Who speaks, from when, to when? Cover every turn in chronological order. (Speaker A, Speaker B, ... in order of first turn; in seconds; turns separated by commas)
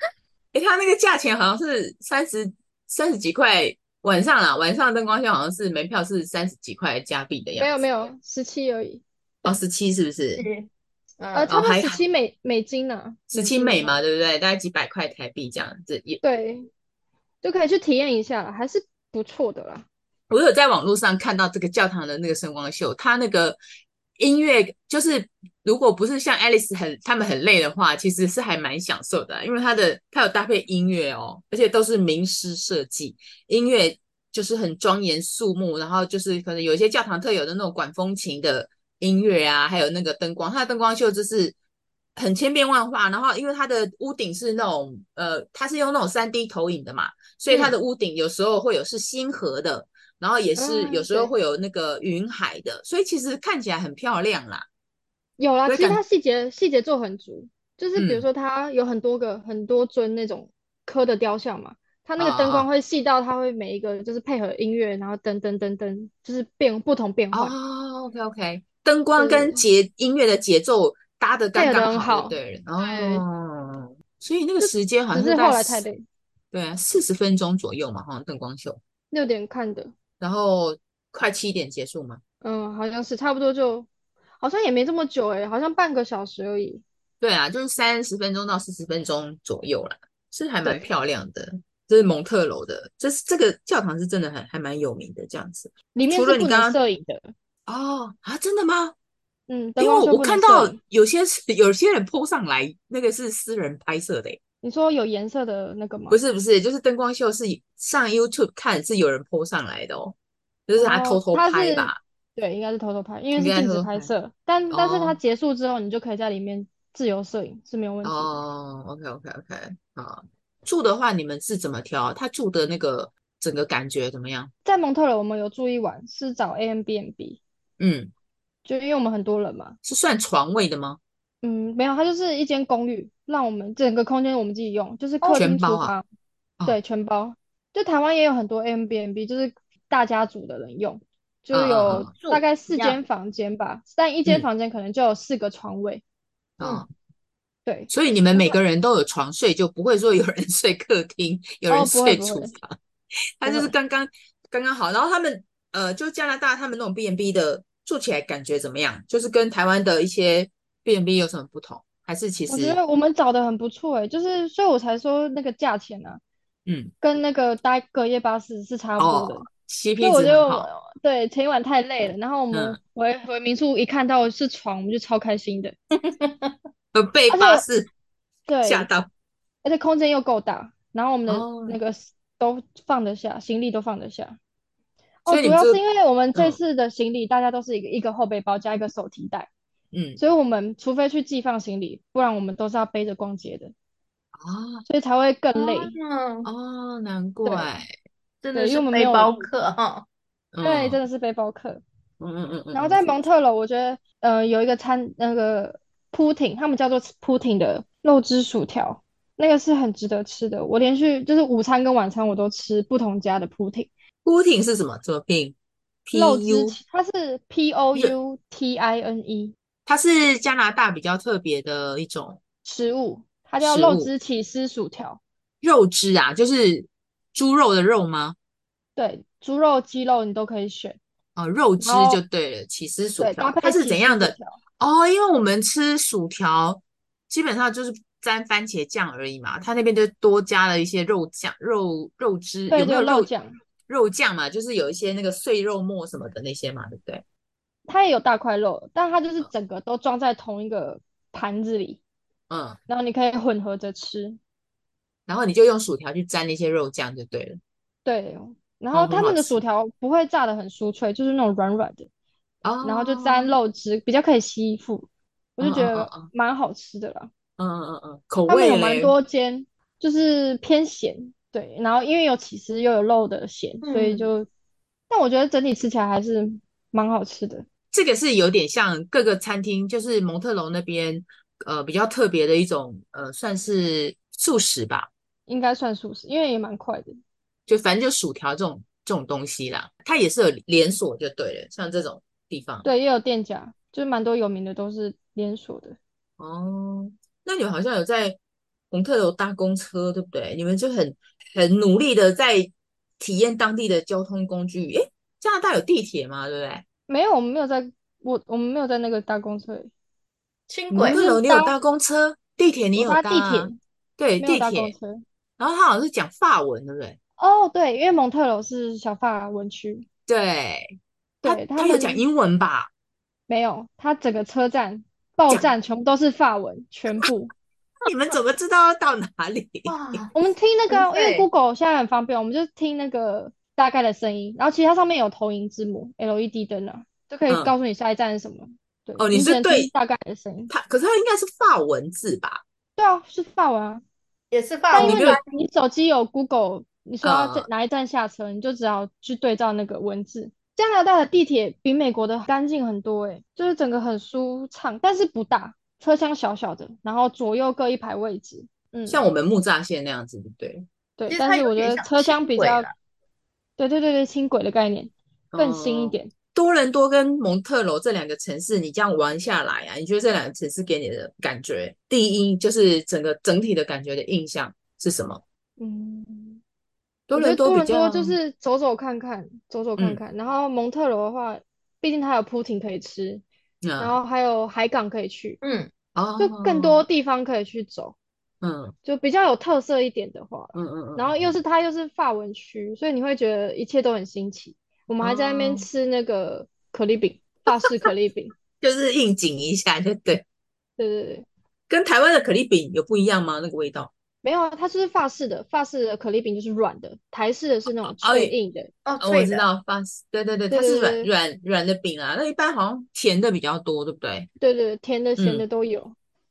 Speaker A: 0.5-7.8, Speaker B: 7.6-9.0, Speaker A: 9.4-10.4, Speaker C: 10.4-10.7, Speaker C: 11.2-11.5, Speaker B: 11.3-14.0, Speaker A: 11.5-12.0, Speaker A: 13.3-16.2, Speaker B: 16.2-16.7, Speaker B: 17.4-19.9, Speaker A: 20.3-23.6, Speaker A: 24.2-41.5, Speaker A: 42.1-54.6, Speaker B: 50.5-51.3, Speaker B: 55.4-67.5, Speaker A: 55.7-56.0, Speaker A: 58.0-58.2, Speaker A: 62.2-62.7, Speaker A: 67.3-75.8, Speaker B: 69.2-69.6, Speaker B: 71.5-73.2, Speaker B: 74.6-76.0, Speaker A: 76.5-78.8, Speaker B: 79.1-79.9, Speaker A: 80.2-82.2, Speaker B: 82.4-83.9, Speaker B: 84.4-86.8, Speaker A: 87.2-96.8, Speaker B: 95.9-97.3, Speaker A: 97.7-98.9, Speaker B: 99.5-100.8, Speaker A: 99.8-104.4, Speaker B: 104.6-106.2, Speaker A: 106.1-110.2, Speaker A: 110.7-112.0, Speaker B: 110.8-118.4, Speaker A: 113.3-114.1, Speaker A: 114.7-115.2, Speaker A: 118.0-124.5, Speaker B: 124.6-127.4, Speaker A: 127.8-128.1, Speaker B: 128.6-129.8, Speaker A: 129.8-131.0, Speaker B: 131.4-136.0, Speaker A: 135.3-135.9, Speaker B: 136.7-146.0, Speaker A: 141.5-142.1, Speaker C: 142.1-143.0, Speaker A: 146.6-146.9, Speaker B: 147.7-148.6, Speaker A: 147.9-152.8, Speaker B: 151.7-152.5, Speaker A: 153.4-162.8, Speaker B: 153.4-153.7, Speaker B: 162.5-166.2, Speaker A: 166.7-166.9, Speaker B: 167.0-169.5, Speaker A: 169.0-170.7, Speaker B: 170.0-175.7, Speaker A: 172.5-172.8, Speaker C: 176.0-176.5, Speaker A: 176.9-177.9, Speaker B: 177.3-177.7, Speaker B: 178.5-178.9, Speaker A: 178.6-179.1, Speaker B: 179.6-184.4, Speaker A: 181.3-181.8, Speaker B: 185.2-189.5, Speaker A: 185.3-185.8, Speaker A: 189.9-190.2, Speaker B: 190.2-193.7, Speaker A: 194.3-194.8, Speaker B: 194.9-196.0, Speaker C: 195.6-196.5, Speaker A: 196.4-197.9, Speaker B: 197.4-197.7, Speaker C: 198.4-200.0, Speaker B: 198.5-199.3, Speaker A: 200.5-201.0, Speaker B: 200.6-201.8, Speaker A: 202.2-203.0, Speaker B: 202.7-213.9, Speaker A: 214.2-216.8, Speaker B: 216.1-219.5, Speaker A: 219.8-222.4, Speaker B: 222.6-225.2, Speaker A: 223.6-224.1, Speaker A: 225.6-228.3, Speaker B: 228.9-231.0, Speaker A: 231.3-243.3, Speaker B: 231.8-232.2, Speaker B: 233.2-234.6, Speaker B: 242.7-243.6, Speaker A: 243.9-247.2, Speaker B: 247.9-252.0, Speaker A: 252.5-252.8, Speaker B: 252.9-254.4, Speaker A: 255.3-257.6, Speaker B: 258.0-262.1, Speaker A: 258.9-259.6, Speaker A: 262.6-263.5, Speaker B: 262.8-267.3, Speaker A: 265.6-266.3, Speaker A: 267.6-269.1, Speaker B: 268.5-274.5, Speaker C: 273.8-274.3, Speaker B: 275.1-277.6, Speaker A: 277.9-285.1, Speaker B: 285.5-287.2, Speaker A: 287.7-292.9, Speaker B: 292.8-296.0, Speaker A: 296.4-298.4, Speaker A: 298.9-306.8, Speaker B: 307.1-309.9, Speaker C: 310.7-311.2, Speaker A: 310.9-314.9, Speaker B: 311.0-311.7, Speaker B: 312.9-313.8, Speaker B: 314.4-315.2, Speaker A: 315.6-317.2, Speaker B: 317.4-320.1, Speaker A: 320.3-320.9, Speaker B: 321.4-322.2, Speaker A: 321.4-322.9, Speaker B: 323.5-327.5, Speaker A: 328.0-330.2, Speaker C: 329.9-330.3, Speaker B: 330.3-340.7, Speaker C: 330.9-331.5, Speaker A: 339.2-339.9, Speaker A: 340.7-342.6, Speaker B: 343.0-344.0, Speaker C: 344.5-345.4, Speaker B: 344.9-359.2, Speaker A: 345.0-345.4, Speaker A: 347.2-347.7, Speaker A: 359.1-360.9, Speaker B: 361.2-362.9, Speaker C: 361.3-362.9, Speaker B: 363.8-366.3, Speaker A: 365.5-375.4, Speaker B: 375.8-376.6, Speaker A: 377.3-378.4, Speaker B: 377.3-383.4, Speaker A: 383.8-384.2, Speaker B: 384.0-385.6, Speaker C: 385.6-385.9, Speaker A: 386.1-387.0, Speaker B: 386.4-388.1, Speaker A: 388.6-388.9, Speaker B: 389.0-398.5, Speaker A: 390.7-391.4, Speaker A: 395.2-395.9, Speaker A: 397.7-397.9, Speaker A: 398.8-400.4, Speaker B: 401.0-401.4, Speaker A: 401.9-404.1, Speaker B: 404.4-408.9, Speaker A: 408.0-408.5, Speaker C: 409.1-409.6, Speaker A: 409.2-414.5, Speaker B: 410.7-411.3, Speaker B: 414.6-416.1, Speaker A: 415.4-415.6